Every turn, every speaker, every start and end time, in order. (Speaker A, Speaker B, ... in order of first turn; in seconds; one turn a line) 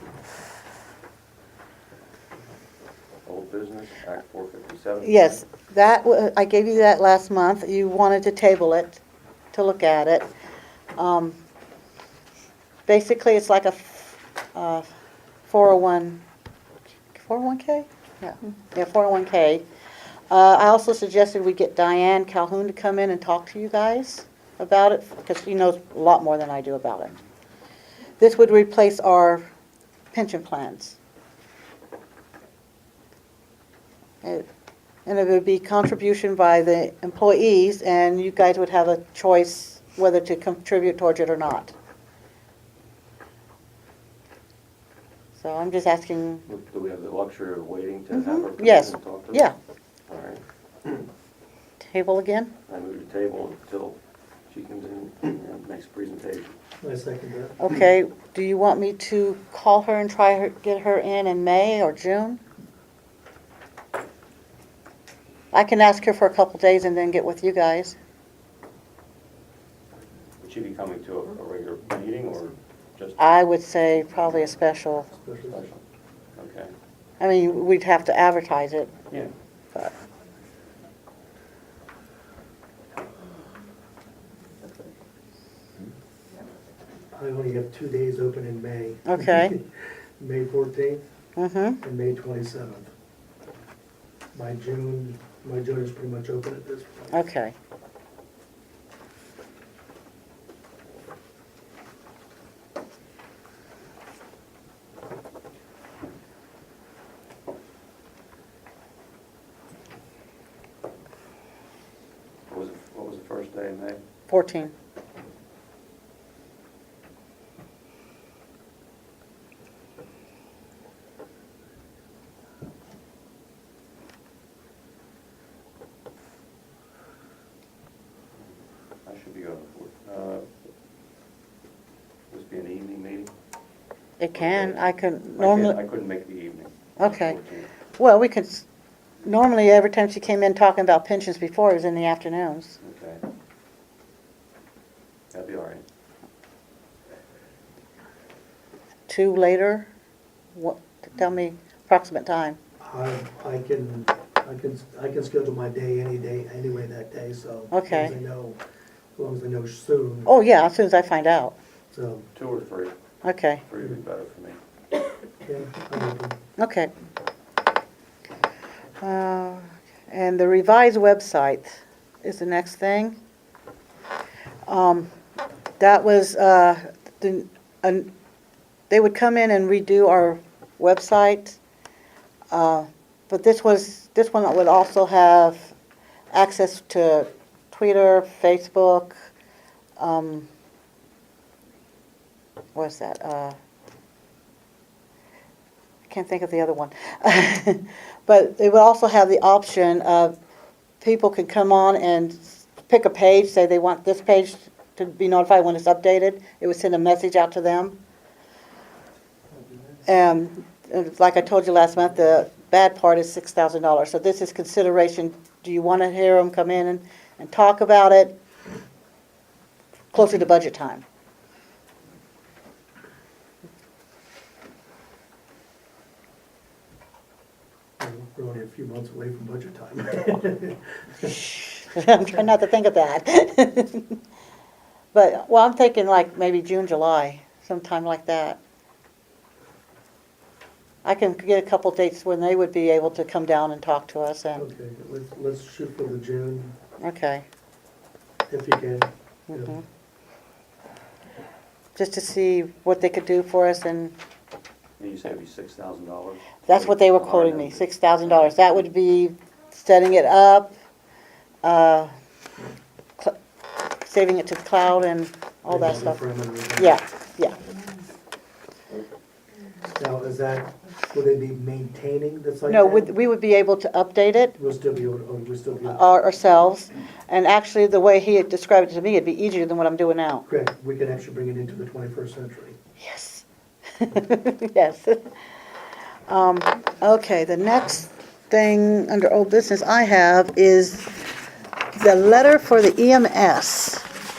Speaker A: 3.3-5.4
Speaker B: 5.0-9.0
Speaker B: 9.5-10.3
Speaker B: 11.0-11.4
Speaker B: 12.9-14.9
Speaker B: 15.5-16.2
Speaker B: 17.1-19.6
Speaker B: 20.3-27.1
Speaker B: 28.2-29.5
Speaker B: 30.1-31.0
Speaker B: 35.1-41.8
Speaker B: 45.4-46.5
Speaker A: 46.5-49.5
Speaker B: 48.1-49.5
Speaker A: 50.1-51.1
Speaker B: 51.8-52.5
Speaker A: 52.7-56.6
Speaker C: 56.8-57.8
Speaker B: 57.6-62.4
Speaker B: 65.5-68.0
Speaker A: 70.4-73.3
Speaker B: 73.2-75.1
Speaker C: 75.1-75.6
Speaker A: 75.5-75.8
Speaker A: 76.4-76.7
Speaker B: 77.2-78.9
Speaker C: 87.1-91.0
Speaker B: 89.1-89.5
Speaker B: 91.4-91.8
Speaker C: 91.8-92.9
Speaker C: 94.3-97.1
Speaker B: 97.1-97.5
Speaker A: 112.5-114.0
Speaker B: 114.3-114.7
Speaker A: 129.1-130.5
Speaker A: 132.3-133.3
Speaker B: 134.2-135.8
Speaker A: 134.3-134.8
Speaker A: 135.4-137.7
Speaker B: 137.0-137.4
Speaker B: 138.0-138.7
Speaker B: 139.2-142.8
Speaker A: 142.8-143.2
Speaker A: 145.3-145.8
Speaker B: 149.1-149.9
Speaker B: 150.5-152.6
Speaker C: 152.8-158.6
Speaker B: 157.7-158.2
Speaker C: 159.2-160.3
Speaker B: 160.3-161.6
Speaker C: 161.9-162.3
Speaker A: 162.3-162.9
Speaker B: 163.2-163.6
Speaker A: 163.7-164.6
Speaker C: 165.4-166.4
Speaker B: 166.6-166.9
Speaker B: 169.0-173.2
Speaker B: 174.7-175.1
Speaker B: 175.8-178.1
Speaker B: 178.9-181.6
Speaker B: 182.5-185.7
Speaker B: 186.3-189.2
Speaker B: 190.0-190.5
Speaker B: 192.8-193.6
Speaker B: 196.1-200.3
Speaker B: 201.0-208.0
Speaker C: 209.6-209.8
Speaker B: 210.1-218.4
Speaker B: 220.1-221.1
Speaker C: 228.0-231.4
Speaker B: 231.2-234.2
Speaker B: 235.1-238.6
Speaker B: 241.0-244.7
Speaker C: 244.6-246.8
Speaker B: 247.0-247.5
Speaker C: 248.5-249.8
Speaker B: 249.5-249.8
Speaker B: 252.0-254.2
Speaker A: 255.0-258.8
Speaker B: 256.7-260.8
Speaker B: 261.6-262.1
Speaker B: 264.0-266.2
Speaker C: 265.7-267.0
Speaker B: 266.8-267.6
Speaker C: 269.9-273.1
Speaker B: 272.7-274.6
Speaker C: 274.6-276.0
Speaker B: 275.9-280.5
Speaker C: 280.5-282.8
Speaker B: 283.0-285.3
Speaker B: 286.3-291.2
Speaker B: 291.9-294.1